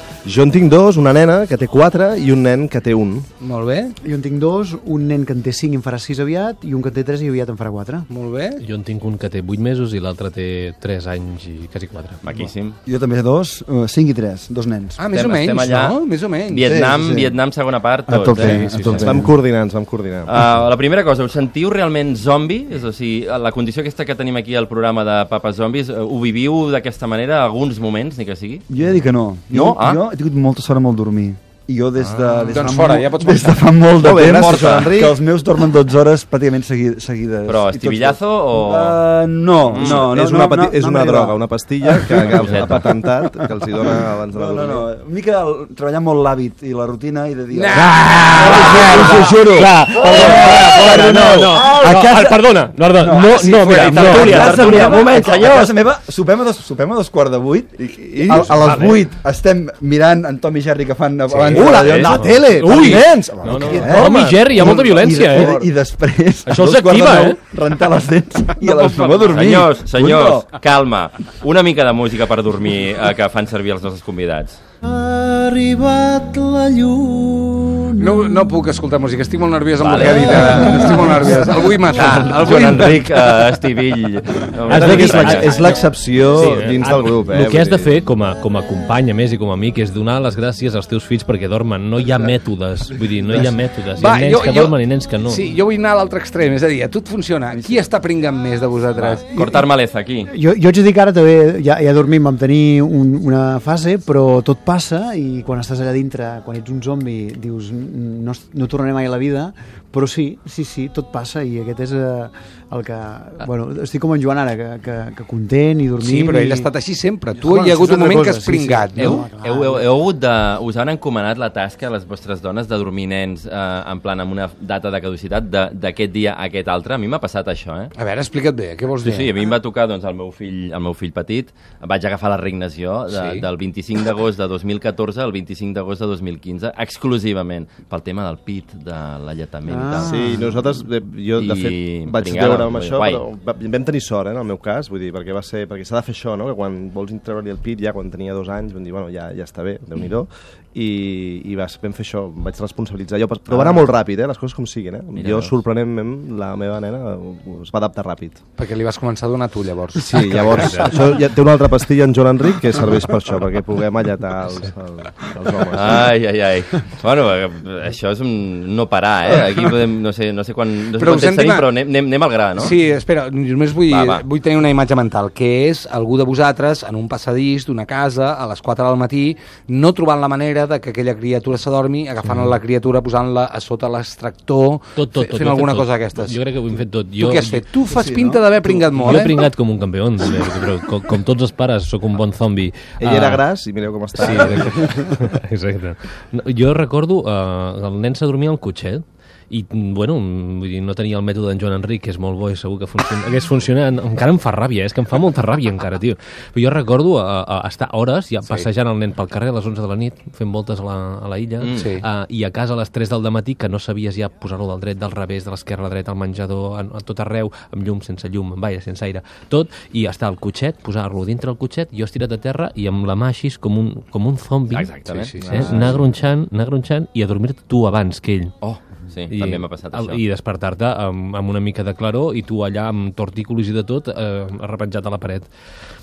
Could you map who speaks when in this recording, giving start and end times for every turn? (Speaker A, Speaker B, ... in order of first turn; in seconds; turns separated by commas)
Speaker A: 0.2-3.3, Speaker B: 3.4-4.0, Speaker C: 4.0-8.1, Speaker B: 8.1-8.6, Speaker D: 8.6-12.3, Speaker E: 12.2-12.8, Speaker F: 12.8-15.0, Speaker B: 15.0-16.8, Speaker E: 15.1-19.2, Speaker F: 16.7-17.4, Speaker F: 18.1-19.3, Speaker D: 18.4-19.2, Speaker A: 19.0-20.3, Speaker E: 20.3-28.6, Speaker F: 28.7-42.3, Speaker E: 29.5-30.1, Speaker E: 32.0-32.7, Speaker B: 32.5-33.8, Speaker A: 33.9-35.2, Speaker E: 34.4-34.9, Speaker E: 37.5-39.1, Speaker E: 39.7-40.1, Speaker A: 39.7-44.9, Speaker D: 42.2-42.6, Speaker E: 42.4-42.8, Speaker F: 44.3-47.8, Speaker B: 47.5-49.4, Speaker D: 47.8-55.0, Speaker F: 48.4-52.4, Speaker F: 53.0-61.7, Speaker E: 53.7-55.8, Speaker C: 54.0-55.5, Speaker A: 54.4-54.9, Speaker A: 57.8-59.0, Speaker D: 58.5-59.0, Speaker E: 61.3-62.2, Speaker D: 61.5-65.6, Speaker C: 61.6-63.0, Speaker A: 61.6-65.7, Speaker F: 62.9-70.5, Speaker D: 66.5-67.4, Speaker B: 68.6-69.4, Speaker E: 69.3-74.6, Speaker C: 74.8-78.1, Speaker B: 78.0-83.1, Speaker E: 79.8-80.8, Speaker E: 81.9-85.6, Speaker D: 84.7-95.4, Speaker A: 84.7-87.9, Speaker F: 93.3-93.5, Speaker B: 93.9-99.2, Speaker F: 97.5-97.9, Speaker E: 98.9-100.3, Speaker C: 100.3-116.7, Speaker B: 116.0-119.3, Speaker C: 117.3-119.9, Speaker E: 119.0-127.9, Speaker B: 128.0-129.3, Speaker E: 129.0-140.2, Speaker B: 133.1-133.5, Speaker C: 139.7-140.7, Speaker A: 139.9-158.4, Speaker E: 141.3-143.2, Speaker E: 153.5-153.9, Speaker E: 155.1-155.5, Speaker B: 158.6-160.7, Speaker A: 159.9-166.1, Speaker D: 160.4-161.2, Speaker E: 165.7-172.8, Speaker B: 171.0-171.7, Speaker B: 172.6-186.4, Speaker E: 173.9-174.2, Speaker D: 184.9-187.6, Speaker B: 187.2-189.4, Speaker D: 188.9-193.5, Speaker A: 193.0-194.8, Speaker D: 194.2-228.6, Speaker E: 211.6-211.9, Speaker B: 211.7-212.0, Speaker E: 224.7-226.0, Speaker B: 225.0-225.8, Speaker E: 228.6-230.2, Speaker D: 229.3-235.5